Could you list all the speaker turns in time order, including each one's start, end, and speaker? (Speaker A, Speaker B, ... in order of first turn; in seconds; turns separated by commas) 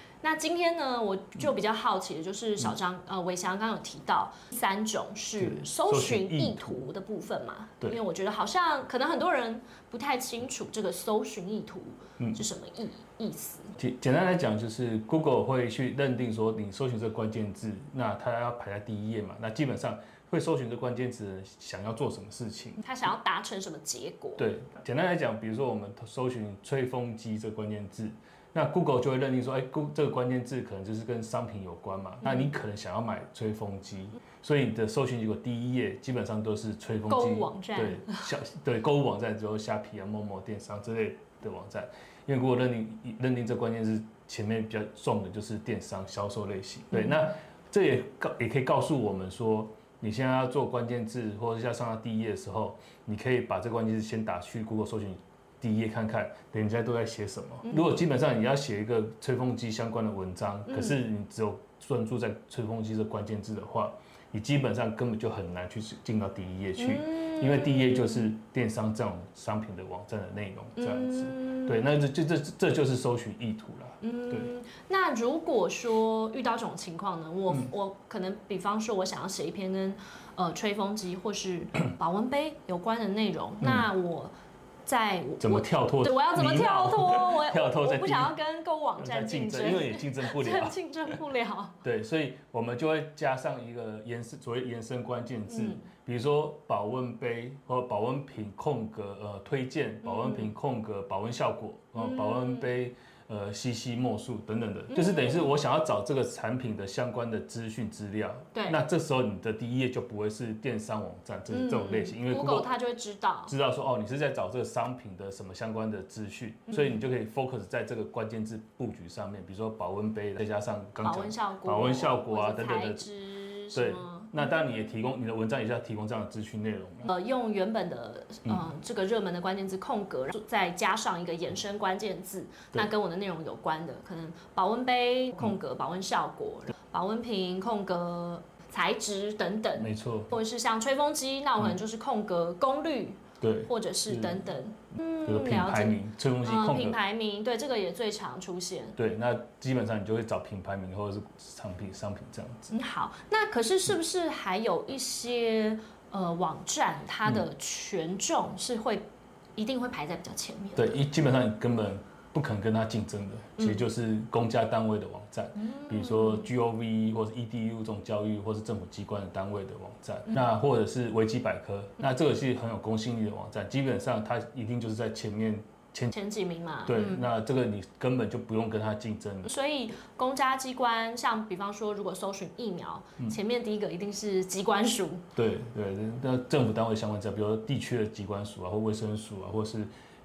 Speaker A: 0.2-13.7, Speaker B: 5.4-6.9, Speaker B: 12.2-12.4, Speaker B: 13.8-22.8, Speaker A: 22.8-24.5, Speaker B: 24.4-74.5, Speaker A: 32.2-32.5, Speaker A: 37.1-38.3, Speaker A: 60.7-61.0, Speaker A: 66.8-68.2, Speaker A: 70.8-71.9, Speaker A: 74.0-84.3, Speaker A: 84.9-91.8, Speaker B: 85.4-88.4, Speaker B: 89.0-90.8, Speaker B: 91.8-112.7, Speaker A: 95.5-95.9, Speaker A: 100.0-100.5, Speaker A: 102.0-102.7, Speaker A: 104.9-105.5, Speaker A: 111.5-113.5, Speaker B: 113.5-123.1, Speaker A: 121.0-124.3, Speaker B: 123.7-127.1, Speaker A: 127.0-149.0, Speaker B: 139.8-140.3, Speaker B: 143.4-144.5, Speaker B: 145.2-147.0, Speaker B: 149.0-152.8, Speaker A: 152.7-159.0, Speaker A: 159.6-161.0, Speaker B: 160.8-176.1, Speaker A: 165.6-166.5, Speaker A: 176.1-177.2, Speaker B: 176.9-179.5, Speaker A: 179.4-185.2, Speaker B: 185.4-189.9